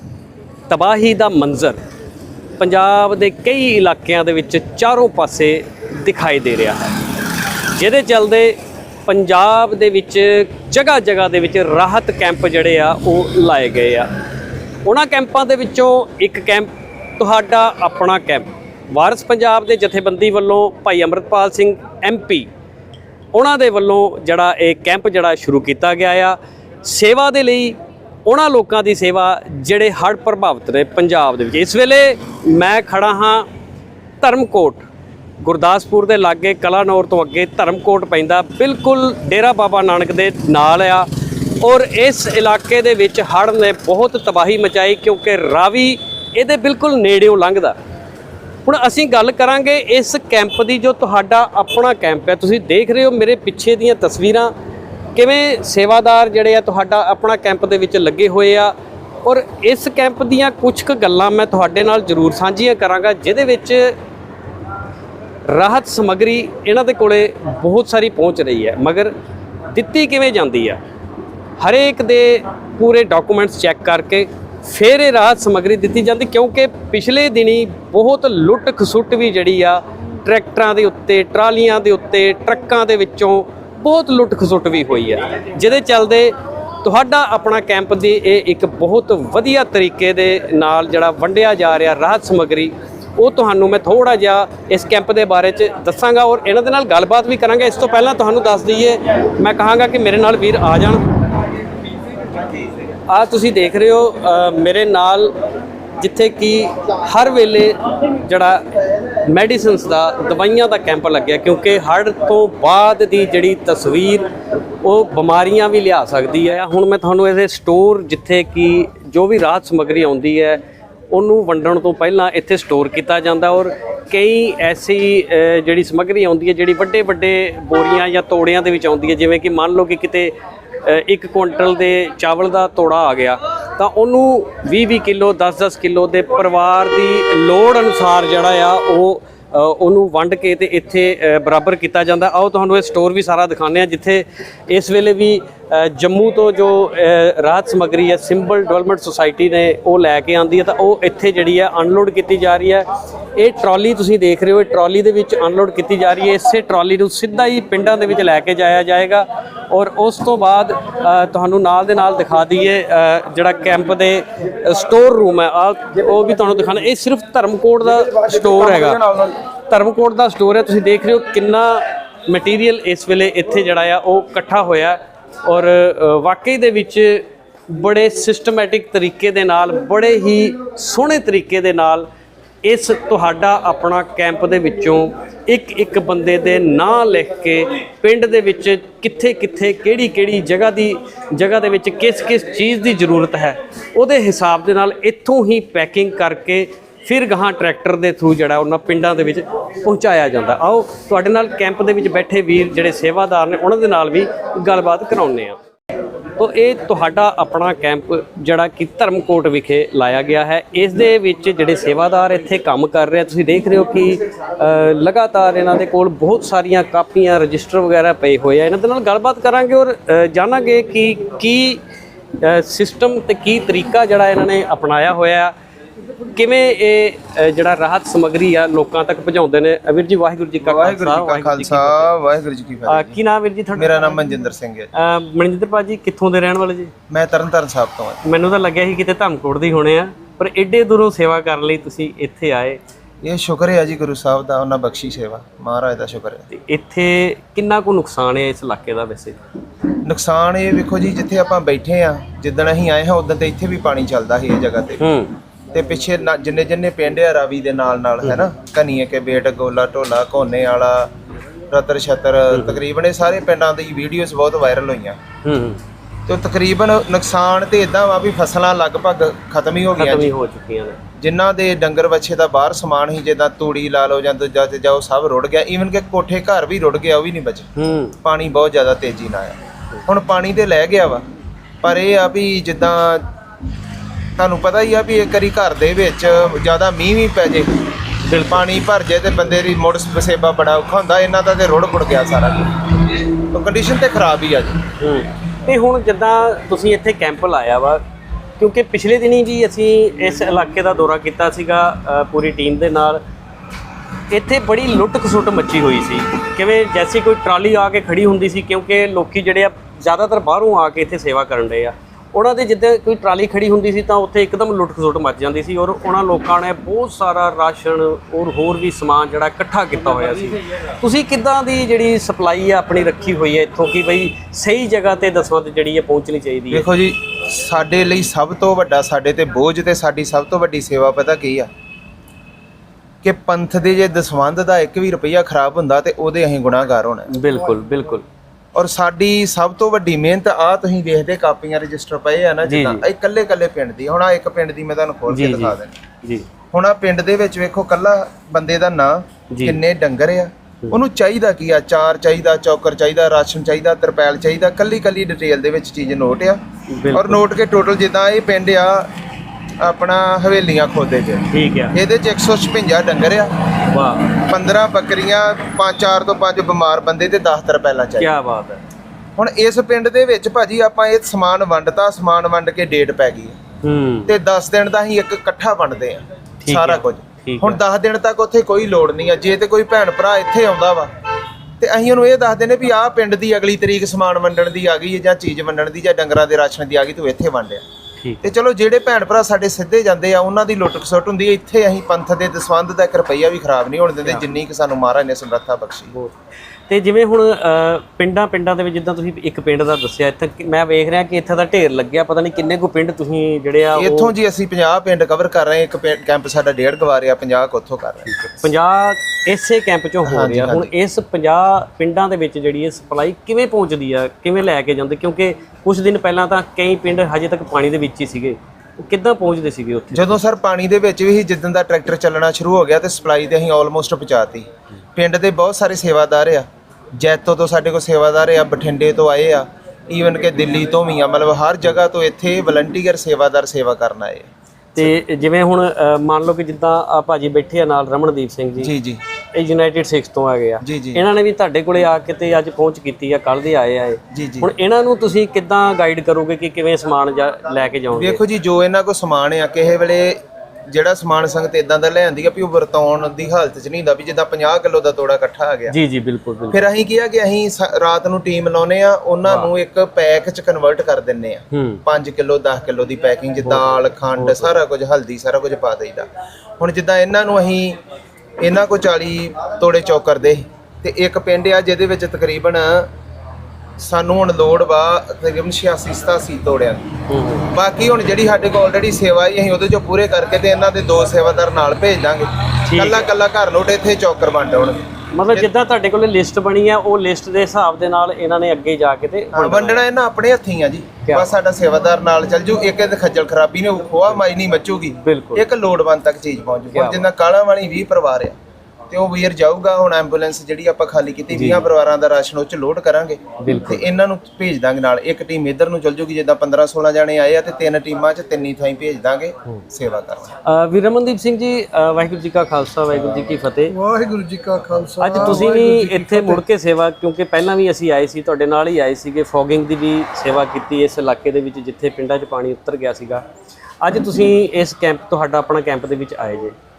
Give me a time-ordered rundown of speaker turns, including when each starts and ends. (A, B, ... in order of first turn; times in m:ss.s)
0:00.7-0:01.8 A
0:02.6-0:07.0 A
0:07.7-0:14.1 A
0:14.8-0:22.5 A
0:23.3-0:33.4 A
0:34.2-0:34.8 A
0:35.4-0:41.1 A
0:41.6-0:47.8 A
0:48.6-0:54.5 A
0:55.1-1:03.9 A
1:05.5-1:09.1 A
1:09.7-1:10.8 A
1:11.6-1:41.0 A
1:43.1-1:45.3 A
1:46.0-1:54.3 A
1:54.8-3:02.1 A
3:02.6-3:25.6 A
3:26.4-3:41.8 A
3:42.4-3:45.5 A
3:46.3-3:52.1 A
3:50.6-3:53.2 B
3:52.9-3:54.0 A
3:53.7-3:54.9 B
3:54.9-3:56.9 A
3:57.1-3:58.2 B
3:58.2-4:02.8 A
4:03.2-4:06.4 B
4:06.5-4:09.4 A
4:10.0-4:15.1 B
4:15.0-4:15.3 A
4:15.7-4:21.1 B
4:21.7-4:25.2 B
4:22.5-4:22.8 A
4:25.4-4:25.8 A
4:26.3-4:30.3 B
4:30.0-4:31.0 A
4:31.2-4:37.7 B
4:37.8-4:38.1 A
4:38.2-4:41.2 B
4:41.8-4:43.2 B
4:44.4-4:47.8 B
4:48.2-4:48.7 A
4:48.5-4:52.9 B
4:53.5-4:54.8 B
4:55.0-4:58.0 A
4:58.6-5:03.2 A
5:04.3-5:26.8 A
5:26.7-5:31.7 B
5:33.2-5:37.3 B
5:37.3-5:38.2 A
5:38.7-5:46.0 B
5:42.6-5:43.0 A
5:45.3-5:46.4 A
5:46.7-5:56.6 B
5:49.5-5:49.8 A
5:56.9-5:57.4 A
5:57.1-5:59.1 B
5:59.8-6:03.6 B
6:01.5-6:01.9 A
6:03.9-6:04.3 A
6:04.4-6:08.3 B
6:08.2-6:08.8 A
6:09.4-6:13.6 B
6:13.8-6:14.3 A
6:14.3-6:21.1 B
6:16.6-6:17.8 A
6:21.8-6:27.8 B
6:28.4-6:36.1 B
6:36.9-6:44.3 A
6:43.9-6:48.7 B
6:48.4-7:00.3 A
6:50.2-6:50.9 B
7:00.1-7:06.6 B
7:07.2-7:15.1 B
7:14.9-7:18.9 A
7:18.8-7:19.2 B
7:19.5-7:28.4 A
7:20.8-7:21.2 B
7:24.3-7:24.7 B
7:28.1-7:35.9 B
7:35.9-7:36.8 A
7:36.7-7:48.0 B
7:39.4-7:39.7 A
7:41.7-7:42.0 A
7:43.6-7:44.8 A
7:48.6-7:53.1 B
7:54.0-7:57.1 B
7:57.3-7:57.7 A
7:57.7-8:05.7 B
8:02.8-8:03.3 A
8:05.3-8:10.0 A
8:09.5-8:18.5 B
8:11.2-8:11.5 A
8:15.2-8:15.6 A
8:16.9-8:17.2 A
8:19.1-8:30.5 B
8:21.5-8:21.8 A
8:23.6-8:24.0 A
8:30.6-8:33.9 A
8:33.9-8:36.6 C
8:35.2-8:43.4 A
8:44.0-8:46.7 A